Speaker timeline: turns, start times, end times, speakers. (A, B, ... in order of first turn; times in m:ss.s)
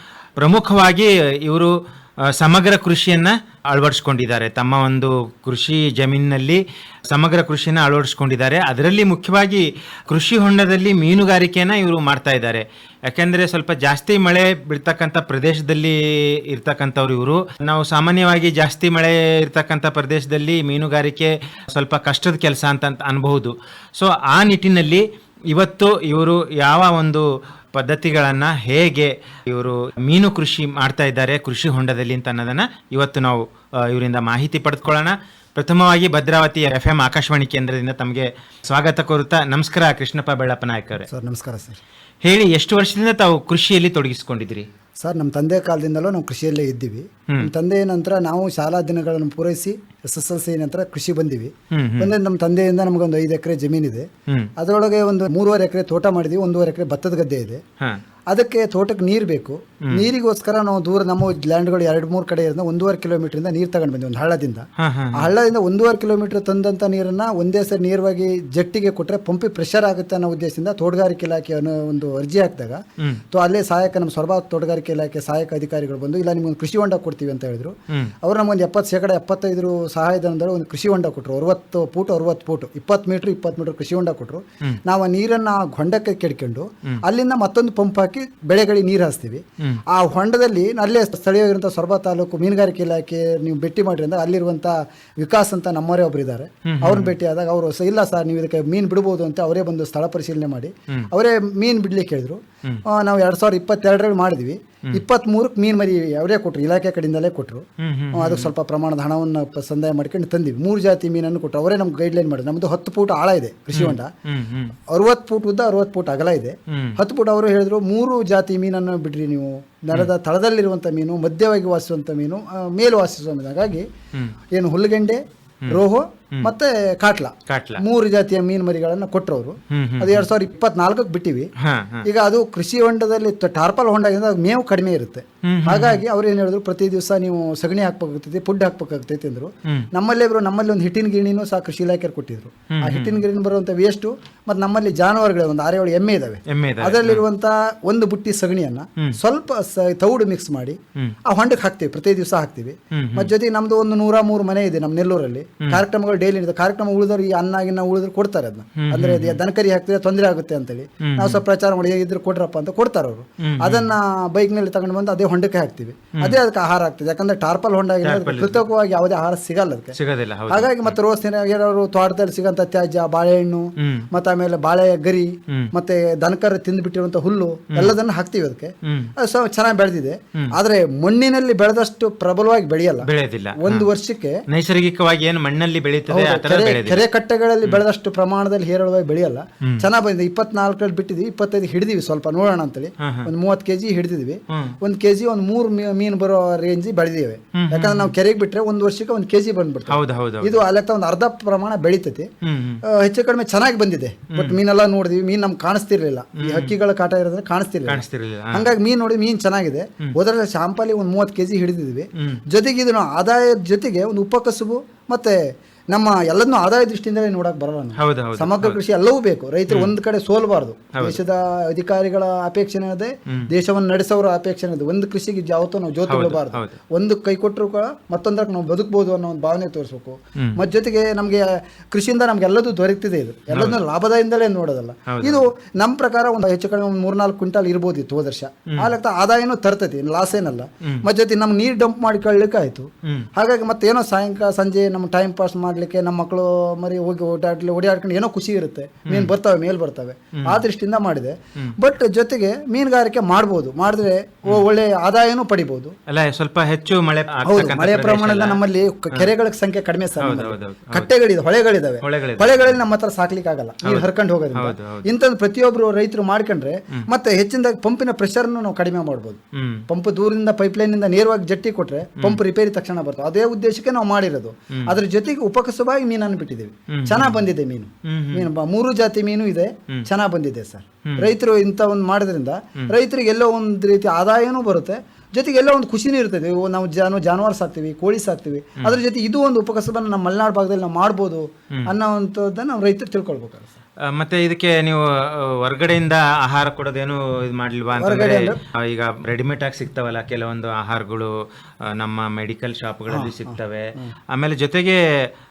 0:00.4-0:41.1 A
0:41.1-0:41.8 B
0:42.2-0:44.7 A
0:45.0-0:57.6 B
0:51.7-0:52.1 A
0:58.3-1:54.1 B
1:04.8-1:05.3 A
1:36.6-1:37.1 A
1:47.8-1:48.5 A
1:53.7-1:54.8 A
1:54.9-2:03.9 B
1:56.7-1:57.0 A
2:04.5-2:11.5 B
2:07.5-2:07.8 A
2:09.7-2:10.2 A
2:11.6-2:12.0 A
2:12.0-2:50.0 B
2:15.4-2:16.0 A
2:22.7-2:23.2 A
2:26.5-2:27.2 A
2:32.9-2:33.3 A
2:38.8-2:39.4 A
2:41.0-2:41.4 A
2:43.4-2:43.9 A
2:48.0-2:48.6 A
2:49.9-2:50.9 A
2:50.5-3:04.4 B
2:53.8-2:54.1 A
2:58.8-2:59.1 A
3:03.0-3:03.9 A
3:04.5-3:07.0 A
3:06.1-3:22.3 B
3:13.0-3:13.3 A
3:14.5-3:14.8 A
3:17.5-3:18.1 A
3:19.9-3:20.6 A
3:22.4-3:22.8 A
3:22.8-4:15.9 B
3:26.4-3:26.7 A
3:27.9-3:28.7 A
3:38.0-3:38.8 A
3:39.7-3:39.9 A
3:40.9-3:41.2 A
3:46.1-3:46.8 A
3:53.5-3:53.8 A
3:55.1-3:55.5 A
4:09.0-4:09.3 A
4:10.3-4:10.6 A
4:16.1-4:19.3 A
4:17.4-4:53.7 B
4:20.2-4:21.1 A
4:22.0-4:22.8 A
4:23.8-4:25.0 A
4:29.5-4:29.8 A
4:36.9-4:37.4 A
4:38.0-4:38.5 A
4:41.0-4:41.3 A
4:54.0-5:01.3 A
4:58.0-4:58.6 B
5:01.8-5:05.0 A
5:03.1-5:04.1 B